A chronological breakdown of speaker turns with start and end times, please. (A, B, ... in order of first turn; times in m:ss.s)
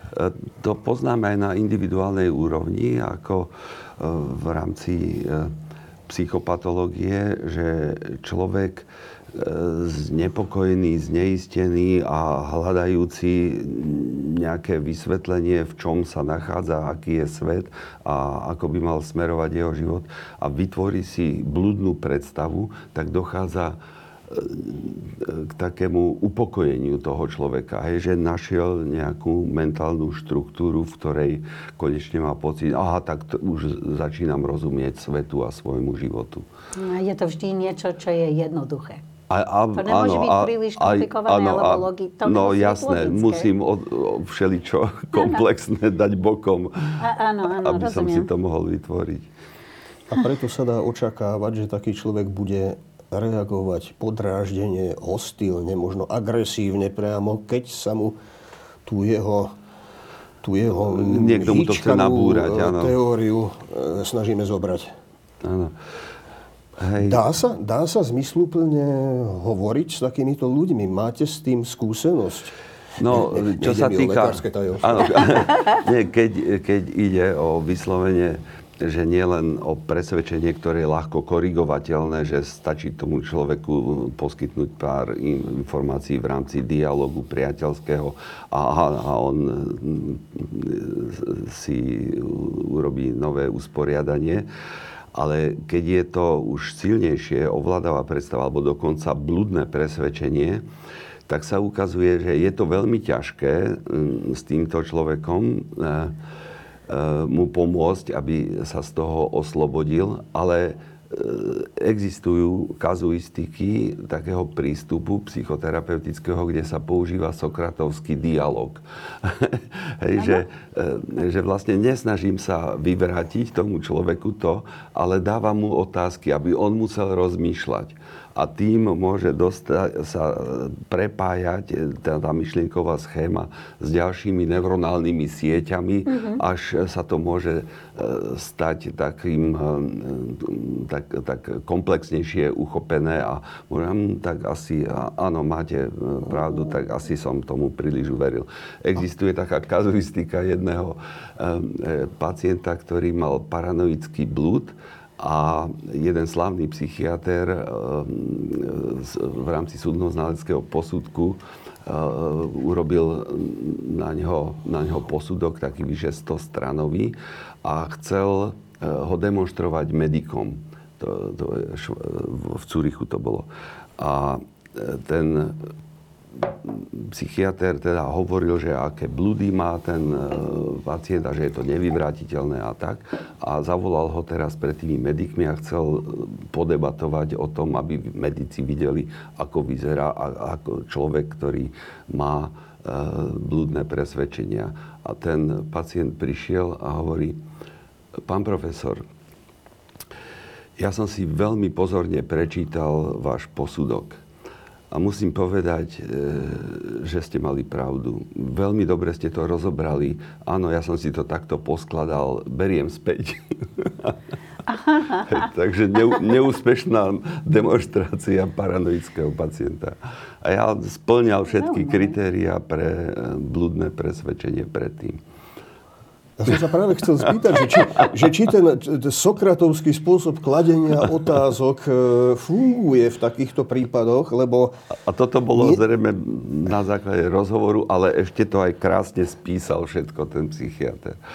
0:00.1-0:05.5 A
0:06.1-0:23.8 A
0:24.3-0:36.5 A
0:36.8-0:39.0 B
0:39.3-0:47.1 A
0:39.8-0:43.5 B
0:47.0-0:48.3 B
0:47.6-0:49.3 A
0:50.1-0:58.2 C
0:58.8-0:59.5 C
1:00.4-1:04.9 C
1:00.9-1:03.0 A
1:05.4-1:05.8 A
1:06.8-1:07.2 A
1:07.0-1:12.6 C
1:13.0-1:34.5 A
1:13.1-1:15.4 C
1:35.1-1:40.6 A
1:41.3-1:46.2 A
1:46.9-2:55.6 A
2:16.1-2:16.4 B
2:56.4-3:17.4 A
3:18.2-3:19.0 A
3:20.8-3:24.2 A
3:24.9-3:34.2 A
3:34.7-3:35.3 B
3:35.1-3:45.2 A
3:41.5-3:42.2 B
3:46.4-3:54.8 C
3:47.8-3:48.0 A
3:55.1-4:01.2 A
3:55.6-3:55.8 C